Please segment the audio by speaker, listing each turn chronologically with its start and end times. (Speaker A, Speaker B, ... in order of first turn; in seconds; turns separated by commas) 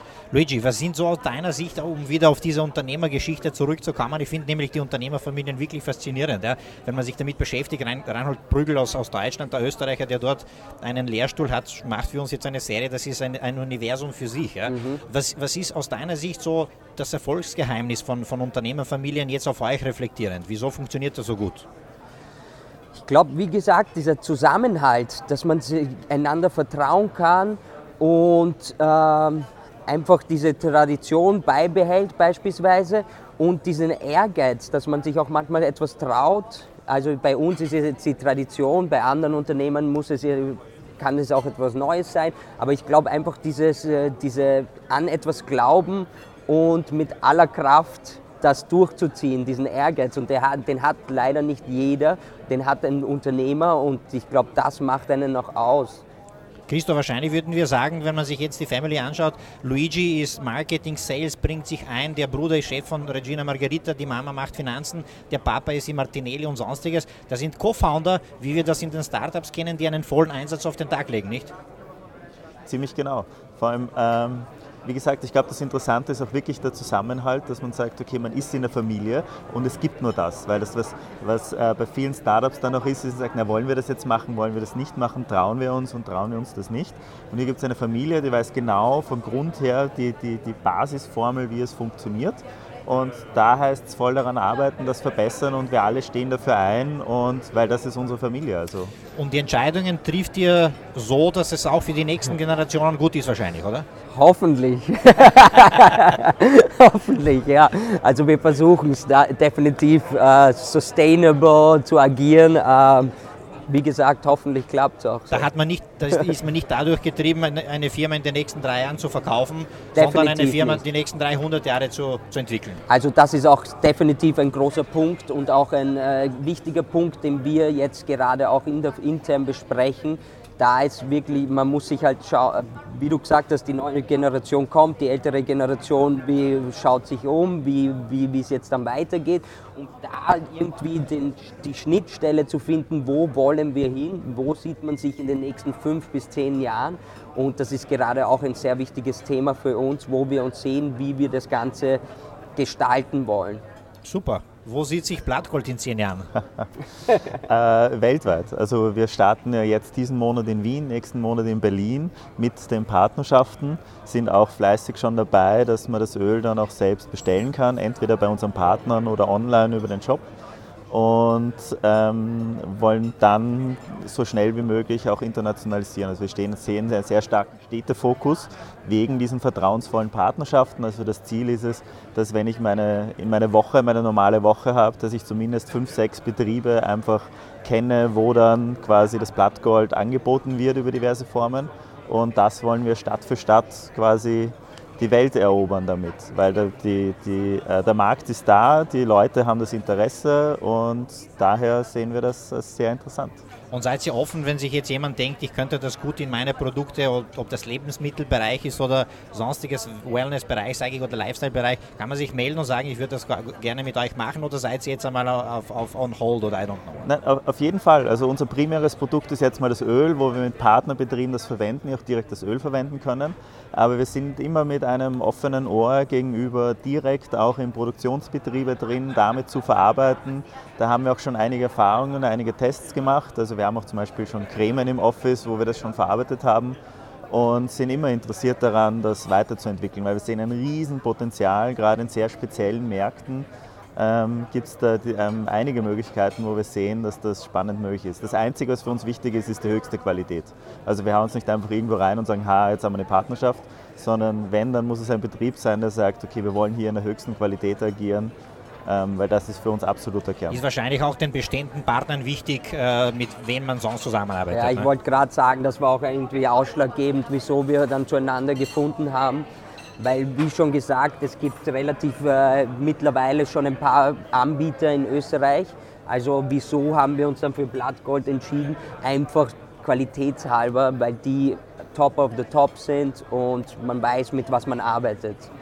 Speaker A: 0.3-21.6, Speaker B: 14.7-15.0, Speaker B: 22.9-56.0, Speaker A: 56.7-71.5, Speaker C: 72.7-98.9, Speaker A: 99.2-103.8, Speaker B: 104.1-113.1, Speaker B: 113.7-115.5, Speaker A: 115.3-122.8, Speaker B: 119.9-120.8, Speaker B: 122.9-152.0, Speaker B: 152.6-153.6, Speaker A: 154.0-156.3, Speaker C: 157.4-170.2, Speaker C: 170.9-203.4, Speaker A: 203.7-217.1, Speaker C: 217.0-236.8, Speaker C: 237.3-258.3, Speaker C: 258.8-260.6, Speaker A: 260.5-264.9, Speaker B: 264.5-269.4, Speaker B: 270.0-285.5